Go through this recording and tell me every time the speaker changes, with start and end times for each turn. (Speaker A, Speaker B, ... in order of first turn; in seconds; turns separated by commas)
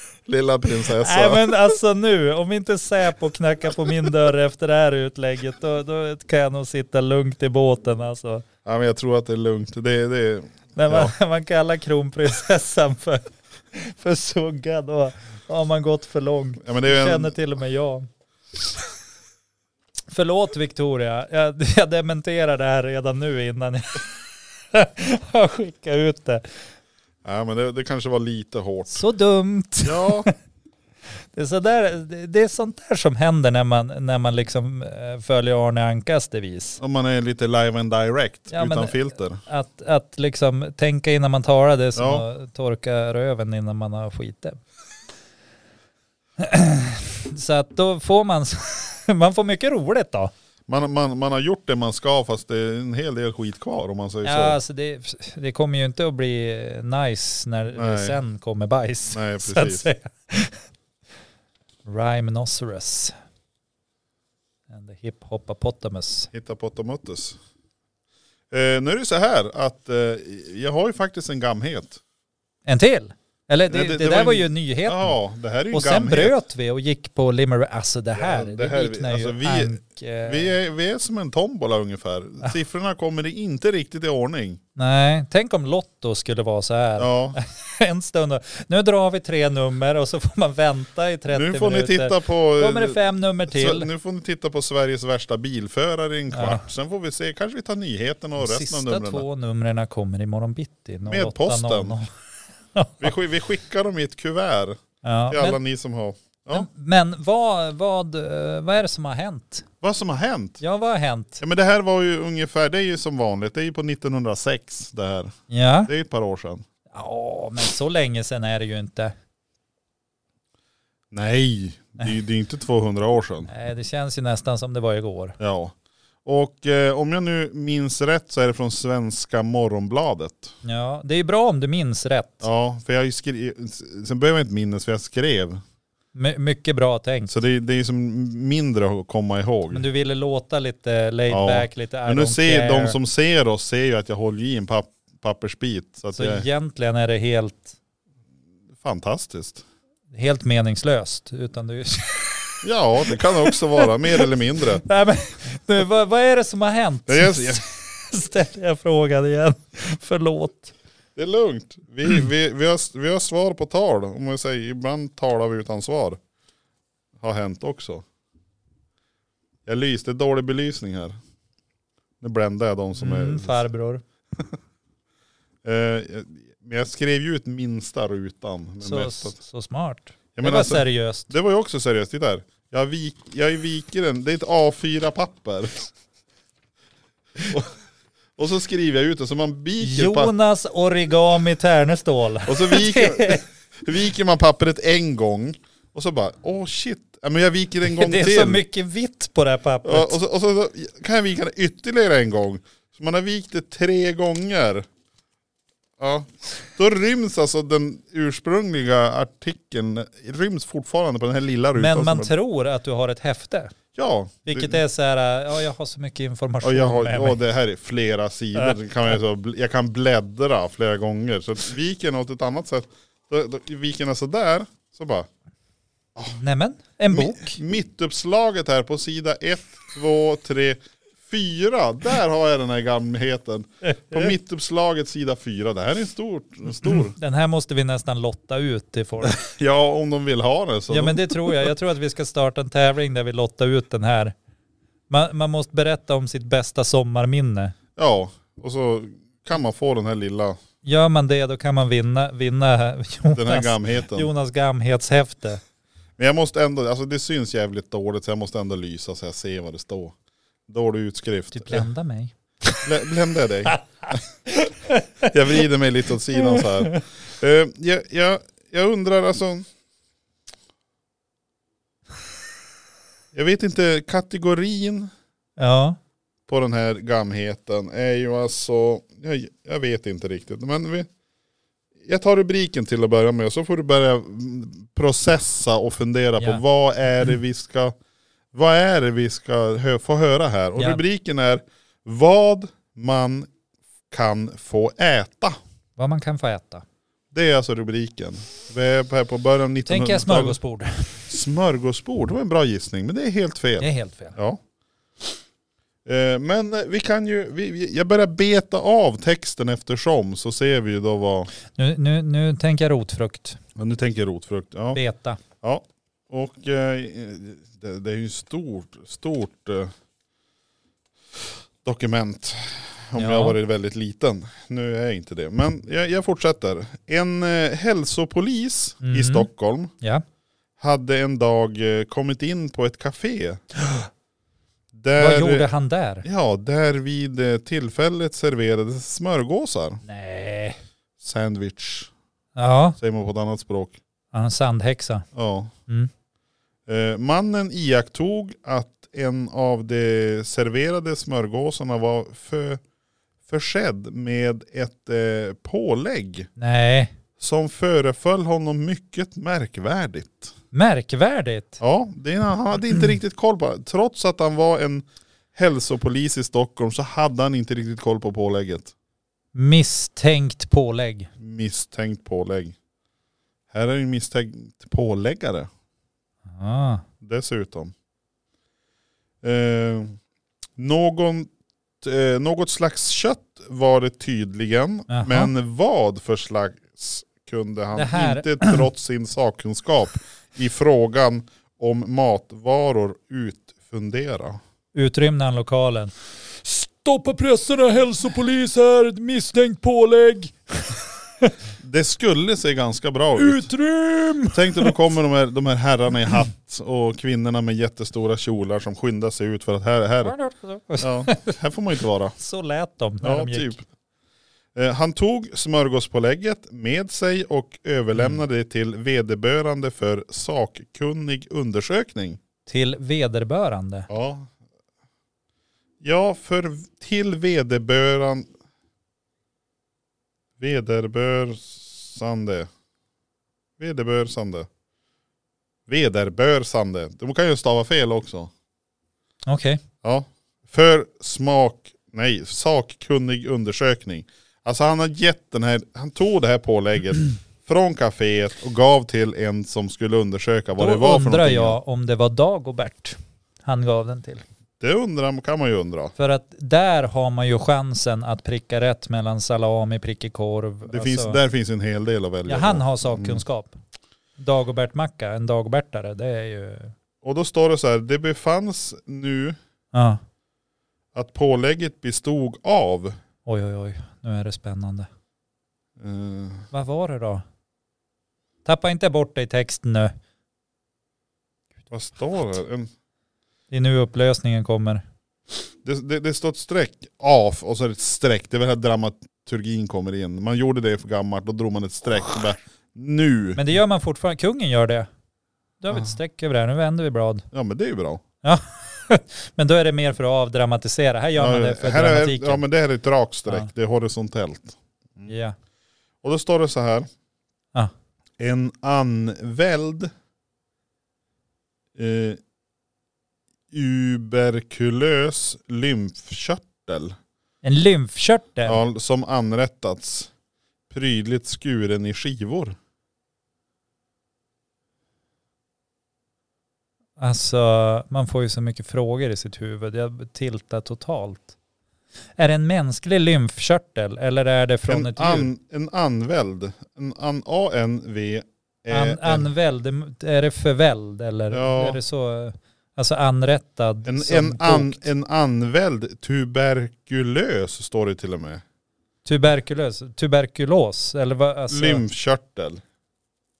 Speaker A: 0.3-1.6, Speaker B: 0.9-8.4, Speaker A: 8.7-11.1, Speaker B: 10.8-18.1, Speaker A: 16.6-17.4, Speaker B: 20.1-26.6, Speaker A: 27.2-29.0, Speaker B: 28.9-30.3, Speaker A: 29.8-30.3, Speaker B: 31.3-36.8, Speaker A: 36.8-39.4, Speaker B: 38.5-44.6, Speaker A: 42.0-42.2, Speaker B: 46.4-50.3, Speaker A: 50.7-54.6, Speaker B: 54.2-60.6, Speaker A: 57.8-58.2, Speaker A: 59.1-59.9, Speaker B: 61.9-63.1, Speaker B: 64.7-66.3, Speaker A: 66.3-67.4, Speaker A: 68.5-72.0, Speaker B: 72.7-75.2, Speaker A: 73.7-76.4, Speaker B: 75.7-80.5, Speaker A: 78.2-84.6, Speaker B: 84.8-93.9, Speaker A: 87.0-87.4, Speaker A: 91.3-99.2, Speaker B: 96.3-96.6, Speaker B: 98.4-102.1, Speaker A: 101.1-102.0, Speaker B: 102.7-103.2, Speaker A: 103.0-106.7, Speaker B: 105.0-105.6, Speaker B: 106.5-109.7, Speaker A: 109.8-110.6, Speaker B: 110.6-111.4, Speaker A: 111.4-115.3, Speaker B: 115.5-115.9, Speaker A: 115.9-116.7, Speaker B: 116.9-119.2, Speaker A: 121.1-123.5, Speaker B: 123.5-125.4, Speaker A: 125.4-125.7, Speaker A: 126.2-130.5, Speaker B: 130.6-132.4, Speaker A: 132.4-135.6, Speaker B: 136.1-137.3, Speaker A: 137.3-139.8, Speaker B: 139.7-143.0, Speaker A: 141.3-146.5, Speaker B: 146.1-147.8, Speaker A: 148.8-149.6, Speaker B: 150.1-160.7, Speaker A: 152.6-154.8, Speaker A: 157.1-157.7, Speaker A: 161.2-166.2, Speaker A: 167.2-168.1, Speaker A: 169.7-171.2, Speaker A: 172.2-173.7, Speaker B: 173.0-174.0, Speaker A: 175.6-179.4, Speaker B: 178.8-181.3, Speaker A: 180.4-185.9, Speaker A: 187.4-187.7, Speaker A: 188.4-190.3, Speaker B: 189.8-193.4, Speaker A: 192.5-198.6, Speaker B: 197.8-200.2, Speaker A: 199.8-204.9, Speaker A: 206.0-212.3, Speaker B: 211.8-213.7, Speaker A: 213.9-214.8, Speaker B: 214.5-217.4, Speaker A: 216.6-225.3, Speaker B: 218.6-219.2, Speaker B: 226.3-227.6, Speaker A: 227.1-237.2, Speaker B: 233.8-234.3, Speaker B: 236.8-239.4, Speaker A: 239.2-241.7, Speaker B: 240.9-244.3, Speaker B: 245.1-247.8, Speaker A: 248.0-250.6, Speaker B: 250.8-255.6, Speaker A: 253.3-254.3, Speaker A: 256.2-260.1, Speaker A: 260.7-261.9, Speaker B: 261.5-262.8, Speaker A: 262.8-264.2, Speaker B: 264.7-265.3, Speaker A: 265.2-269.7, Speaker B: 266.3-267.0, Speaker A: 273.3-275.1, Speaker B: 275.6-276.0, Speaker A: 276.5-281.1, Speaker A: 282.1-287.9, Speaker A: 288.5-293.5, Speaker B: 290.8-291.0, Speaker A: 294.1-295.6, Speaker B: 296.0-296.8, Speaker A: 297.3-300.6, Speaker B: 299.9-301.2, Speaker A: 301.3-304.6, Speaker B: 303.8-304.4, Speaker A: 306.1-311.5, Speaker B: 311.7-313.6, Speaker A: 313.8-315.0, Speaker B: 314.9-315.4, Speaker A: 315.6-319.9, Speaker A: 321.8-329.9, Speaker B: 323.2-323.6, Speaker B: 329.0-329.5, Speaker A: 330.8-333.6, Speaker A: 334.9-335.7, Speaker B: 335.2-336.2, Speaker A: 336.2-340.0, Speaker B: 340.0-340.8, Speaker A: 341.2-342.1, Speaker B: 342.6-343.0, Speaker A: 343.0-344.0, Speaker B: 344.3-345.3, Speaker A: 345.3-345.7, Speaker A: 346.9-352.8, Speaker A: 353.5-356.5, Speaker B: 356.6-357.1, Speaker A: 357.4-360.5, Speaker B: 360.7-361.8, Speaker A: 361.8-368.9, Speaker B: 369.6-371.3, Speaker A: 371.4-372.8, Speaker A: 373.7-375.7, Speaker B: 376.5-377.0, Speaker A: 377.2-377.9, Speaker A: 379.4-380.2, Speaker A: 380.8-381.5, Speaker A: 382.0-394.6, Speaker B: 385.1-385.5, Speaker B: 387.9-388.9, Speaker B: 394.9-401.5, Speaker A: 401.8-403.7, Speaker B: 403.4-405.0, Speaker A: 404.5-410.4, Speaker B: 410.2-411.5, Speaker A: 411.0-412.4, Speaker B: 412.4-413.8, Speaker A: 413.2-413.8, Speaker A: 414.8-422.4, Speaker B: 418.1-418.4, Speaker B: 422.7-424.1, Speaker A: 424.1-424.5, Speaker A: 426.0-428.5, Speaker A: 430.6-432.7, Speaker A: 433.8-434.7, Speaker A: 435.9-438.5, Speaker B: 439.5-439.8, Speaker A: 440.0-451.8, Speaker B: 450.8-454.4, Speaker A: 454.8-456.1, Speaker B: 456.2-461.4, Speaker A: 460.9-463.4, Speaker B: 462.5-463.8, Speaker B: 464.4-466.9, Speaker A: 467.2-469.6, Speaker B: 469.9-470.2, Speaker A: 471.1-473.1, Speaker B: 473.5-475.1, Speaker A: 476.0-476.7, Speaker B: 476.7-477.4, Speaker B: 478.6-480.1, Speaker A: 481.9-482.9, Speaker B: 483.7-485.0, Speaker A: 485.9-493.7, Speaker B: 493.6-495.1, Speaker B: 495.8-497.4, Speaker A: 497.5-498.2, Speaker B: 498.4-502.6, Speaker A: 501.4-505.3, Speaker B: 505.3-505.6, Speaker A: 506.2-507.1, Speaker A: 508.4-510.1, Speaker A: 512.0-512.4, Speaker A: 513.7-517.2, Speaker B: 517.6-518.8, Speaker A: 518.6-520.3, Speaker A: 520.9-522.8, Speaker B: 527.2-531.5, Speaker B: 532.4-535.5, Speaker A: 534.9-539.5, Speaker B: 538.9-545.1, Speaker A: 541.5-542.0, Speaker A: 544.0-548.6, Speaker B: 549.2-552.0, Speaker A: 551.7-552.8